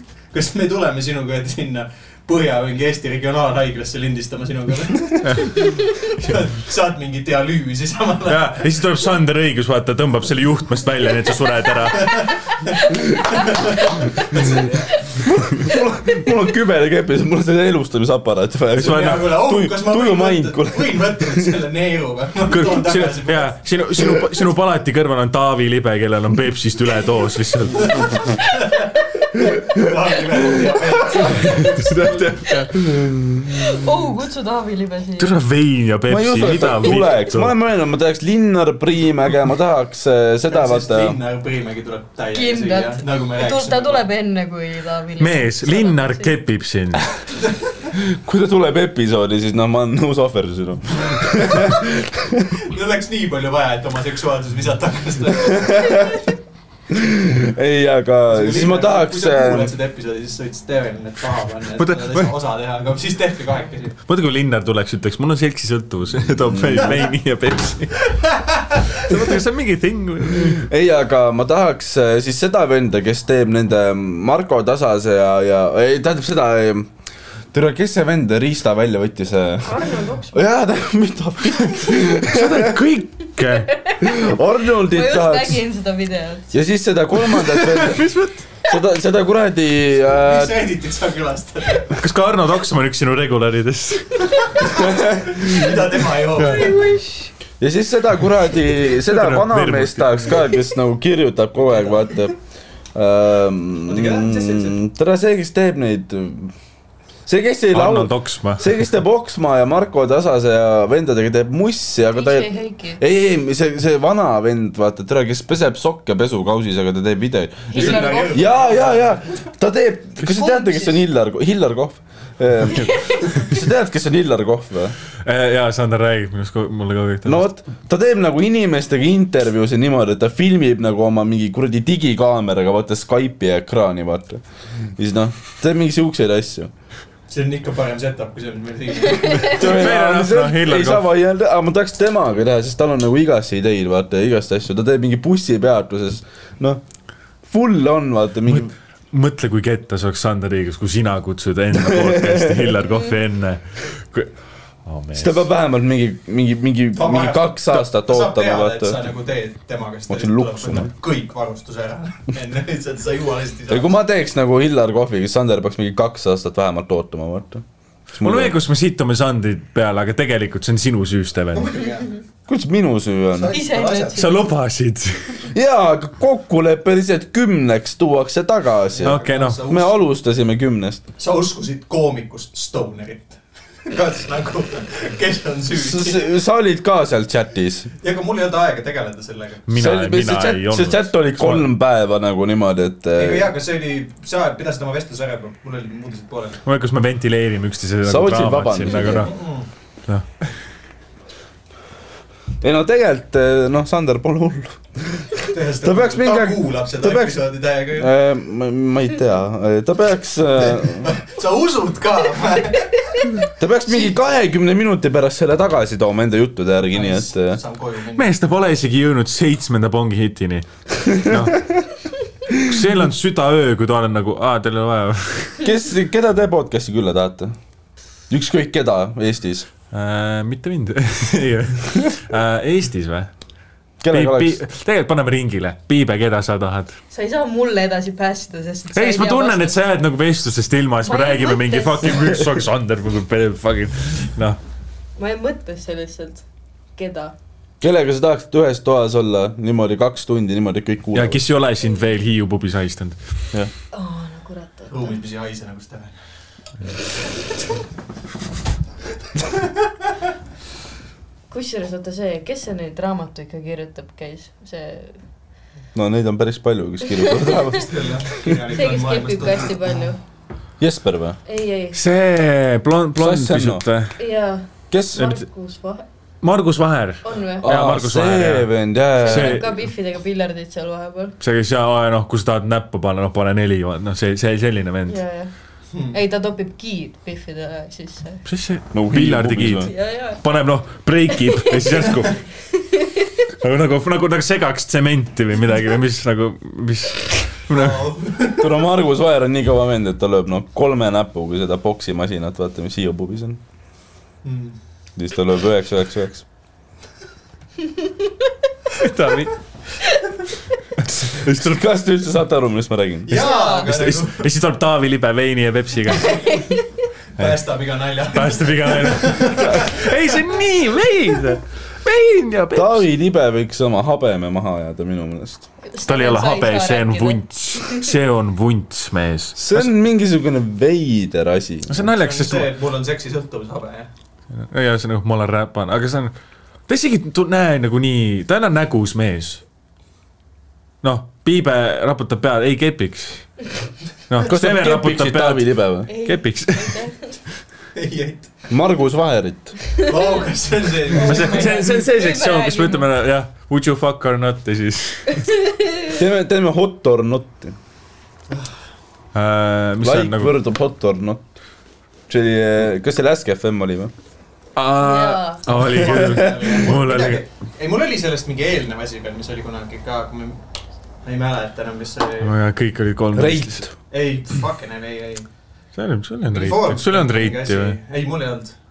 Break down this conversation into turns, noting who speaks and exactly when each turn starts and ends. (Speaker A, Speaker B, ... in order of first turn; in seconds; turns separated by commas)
Speaker A: 0.3-8.6, Speaker B: 8.3-12.3, Speaker A: 11.9-14.9, Speaker C: 15.2-21.5, Speaker A: 18.7-23.6, Speaker B: 18.8-19.3, Speaker B: 22.5-28.2, Speaker A: 27.8-29.0, Speaker C: 29.4-29.7, Speaker A: 29.6-31.8, Speaker B: 31.3-33.0, Speaker C: 32.8-33.7, Speaker D: 33.5-35.4, Speaker B: 35.2-37.5, Speaker C: 36.1-41.1, Speaker A: 40.5-44.0, Speaker D: 42.3-46.3, Speaker B: 45.2-47.1, Speaker C: 47.9-52.5, Speaker A: 52.6-56.1, Speaker C: 55.5-56.2, Speaker C: 56.9-59.7, Speaker A: 58.3-64.0, Speaker B: 61.8-62.3, Speaker B: 64.1-68.2, Speaker C: 66.5-67.0, Speaker A: 68.2-69.0, Speaker B: 68.9-70.6, Speaker C: 70.3-76.9, Speaker C: 77.5-82.8, Speaker D: 79.6-80.5, Speaker B: 81.9-83.8, Speaker D: 83.7-86.6, Speaker C: 84.0-85.6, Speaker C: 86.5-88.1, Speaker B: 87.3-88.4, Speaker C: 88.6-90.6, Speaker A: 90.1-91.9, Speaker B: 91.9-94.5, Speaker A: 94.5-96.8, Speaker C: 94.7-95.4, Speaker B: 96.4-96.8, Speaker D: 96.4-97.3, Speaker C: 97.6-102.3, Speaker B: 98.9-100.4, Speaker A: 101.6-102.1, Speaker C: 102.9-106.5, Speaker A: 103.8-104.8, Speaker C: 107.3-124.9, Speaker B: 107.7-108.8, Speaker D: 112.1-113.0, Speaker D: 117.7-118.6, Speaker A: 117.7-119.4, Speaker D: 120.2-121.0, Speaker D: 122.7-123.4, Speaker B: 125.2-127.5, Speaker C: 127.2-134.4, Speaker C: 135.0-136.7, Speaker A: 137.3-139.7, Speaker B: 139.2-141.0, Speaker C: 139.4-146.8, Speaker C: 147.4-148.7, Speaker B: 148.5-154.3, Speaker C: 151.7-152.7, Speaker B: 154.8-155.4, Speaker C: 155.1-159.0, Speaker A: 156.9-163.9, Speaker C: 160.1-160.9, Speaker C: 163.7-168.6, Speaker B: 168.2-171.7, Speaker A: 171.5-172.1, Speaker C: 172.5-173.6, Speaker A: 173.3-174.3, Speaker D: 173.5-174.5, Speaker B: 174.1-175.4, Speaker C: 175.5-181.0, Speaker A: 178.9-180.0, Speaker B: 179.0-179.6, Speaker A: 181.2-186.3, Speaker C: 185.7-187.9, Speaker A: 188.0-189.6, Speaker B: 189.7-191.7, Speaker C: 189.8-193.5, Speaker A: 193.2-196.6, Speaker B: 196.6-199.3, Speaker C: 198.1-199.3, Speaker A: 199.2-199.7, Speaker C: 202.6-211.1, Speaker A: 205.5-208.1, Speaker A: 210.6-213.1, Speaker C: 213.6-217.6, Speaker A: 216.9-218.3, Speaker B: 218.2-221.6, Speaker B: 222.6-225.6, Speaker C: 225.6-227.5, Speaker C: 228.3-229.7, Speaker B: 229.9-233.3, Speaker C: 234.0-234.6, Speaker B: 234.1-236.9, Speaker D: 237.1-239.8, Speaker B: 238.9-244.6, Speaker D: 241.1-242.3, Speaker D: 245.2-246.4, Speaker D: 246.9-247.3, Speaker C: 247.8-251.4, Speaker B: 251.1-253.2, Speaker D: 253.9-255.2, Speaker A: 254.9-256.1, Speaker D: 261.5-265.2, Speaker C: 265.9-267.9, Speaker D: 267.1-267.8, Speaker A: 267.8-270.1, Speaker D: 268.6-270.2, Speaker C: 270.8-271.4, Speaker D: 271.5-272.0, Speaker B: 271.9-274.2, Speaker C: 273.1-273.9, Speaker D: 274.2-276.1, Speaker C: 274.9-275.3, Speaker B: 276.4-278.7, Speaker D: 277.2-277.7, Speaker C: 277.6-279.6, Speaker D: 279.2-281.3, Speaker B: 279.2-279.7, Speaker B: 281.4-285.2, Speaker D: 285.1-285.5, Speaker D: 286.1-288.4, Speaker B: 288.4-292.4, Speaker C: 288.9-289.9, Speaker D: 289.8-290.4, Speaker D: 291.3-292.1, Speaker B: 293.6-298.1, Speaker A: 297.7-298.7, Speaker C: 298.6-303.6, Speaker A: 304.4-304.8, Speaker C: 305.2-306.4, Speaker B: 308.9-309.5, Speaker B: 311.0-311.8, Speaker C: 311.4-313.4, Speaker A: 313.2-314.4, Speaker D: 313.3-313.9, Speaker B: 313.7-316.6, Speaker D: 316.1-316.8, Speaker A: 317.4-320.1, Speaker B: 318.3-323.0, Speaker C: 322.7-325.6, Speaker D: 325.9-328.1, Speaker B: 326.1-329.9, Speaker C: 329.6-332.0, Speaker B: 331.9-332.7, Speaker A: 332.0-334.1, Speaker B: 334.5-336.3, Speaker B: 336.9-339.6, Speaker B: 341.0-343.5, Speaker B: 344.3-347.1, Speaker C: 344.4-346.1, Speaker D: 346.1-347.3, Speaker A: 347.9-348.5, Speaker C: 348.7-349.8, Speaker D: 350.0-350.4, Speaker A: 350.0-351.8, Speaker D: 351.1-353.1, Speaker B: 351.2-355.5, Speaker D: 355.7-356.1, Speaker C: 356.1-357.8, Speaker B: 359.3-360.6, Speaker C: 360.0-361.4, Speaker C: 362.3-364.1, Speaker B: 364.8-367.4, Speaker D: 365.0-365.7, Speaker A: 365.7-370.6, Speaker C: 366.0-366.8, Speaker A: 371.2-372.5, Speaker B: 372.4-373.8, Speaker C: 373.3-373.9, Speaker A: 374.1-375.4, Speaker B: 375.9-378.0, Speaker A: 376.5-378.7